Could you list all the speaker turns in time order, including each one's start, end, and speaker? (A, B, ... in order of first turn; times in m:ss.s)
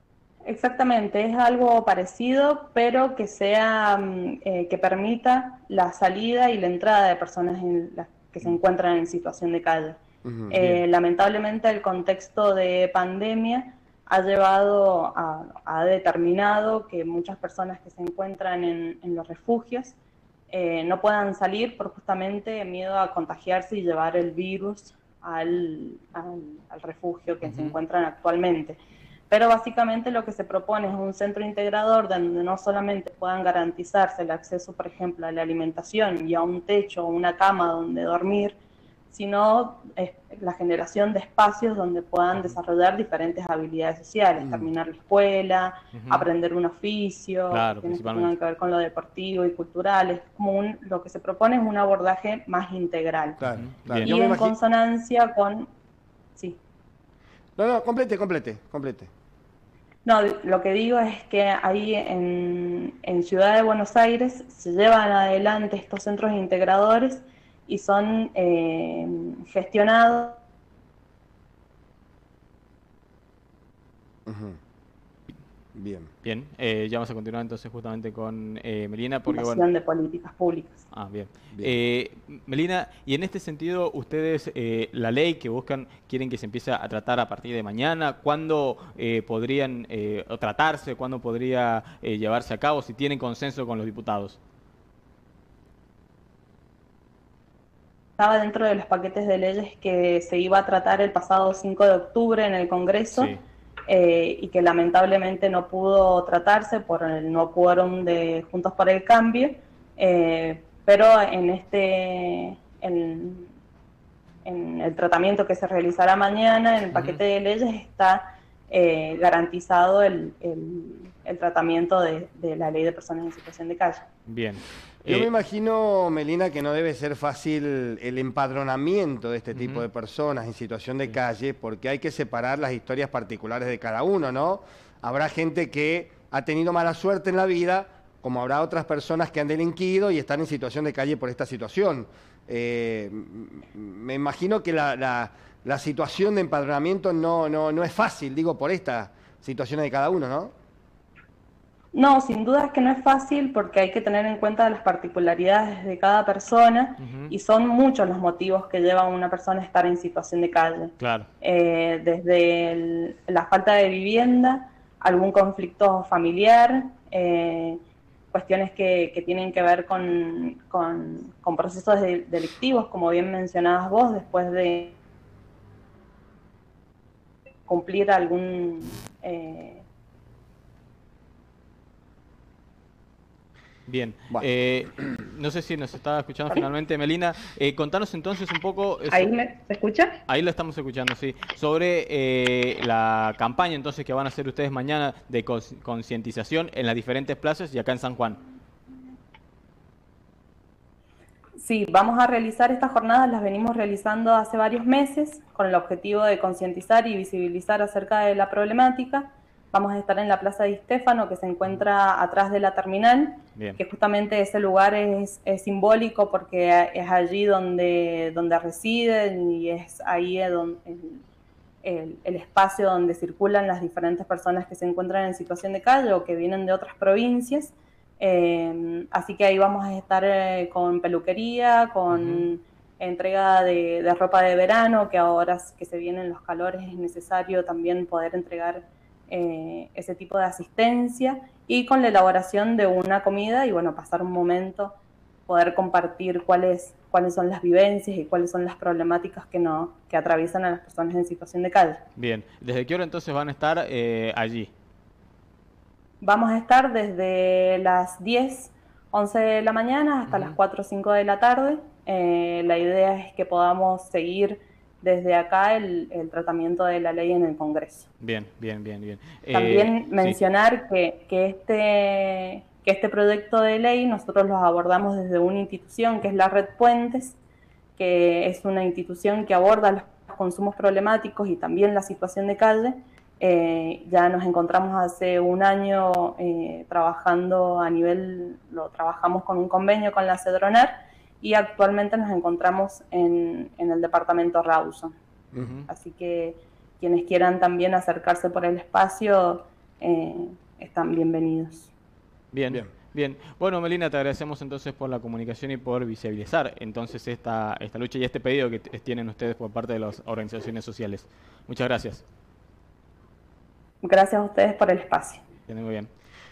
0:00.5-0:20.0 A
0:10.2-0:10.6 B
0:20.5-0:38.6 A
0:27.4-0:27.8 C
0:39.1-0:53.4 A
0:44.4-0:44.7 B
0:45.9-0:46.3 C
0:47.5-0:48.3 C
0:53.4-0:54.5 B
0:53.5-0:54.1 C
0:54.0-0:55.7 A
0:57.6-0:59.1 B
1:00.0-1:10.4 A
1:14.3-1:14.6 B
1:15.7-1:16.1 B
1:16.2-1:19.6 C
1:19.3-1:20.8 A
1:20.9-1:34.4 C
1:38.2-1:43.4 A
1:43.1-1:43.4 C
1:43.9-1:53.5 A
1:54.4-2:04.1 A
1:56.9-1:57.2 C
2:04.3-2:05.3 C
2:05.1-2:30.5 B
2:09.5-2:09.9 C
2:31.9-2:47.8 A
2:37.0-2:37.3 C
2:41.0-2:41.3 C
2:48.3-2:55.0 A
2:57.7-2:59.9 A
3:03.9-3:09.3 C
3:09.1-3:10.2 A
3:10.3-3:18.4 C
3:21.6-3:41.2 A
3:41.8-4:05.0 A
3:52.1-3:52.5 C
4:05.5-4:12.0 A
4:12.2-4:14.7 C
4:16.2-4:28.1 A
4:20.3-4:20.6 C
4:28.2-4:30.4 C
4:29.5-4:37.4 A
4:38.0-4:55.2 A
4:55.6-4:55.9 C
4:55.9-5:01.9 A
5:02.5-5:12.2 C
5:14.0-5:15.4 A
5:15.7-5:16.1 C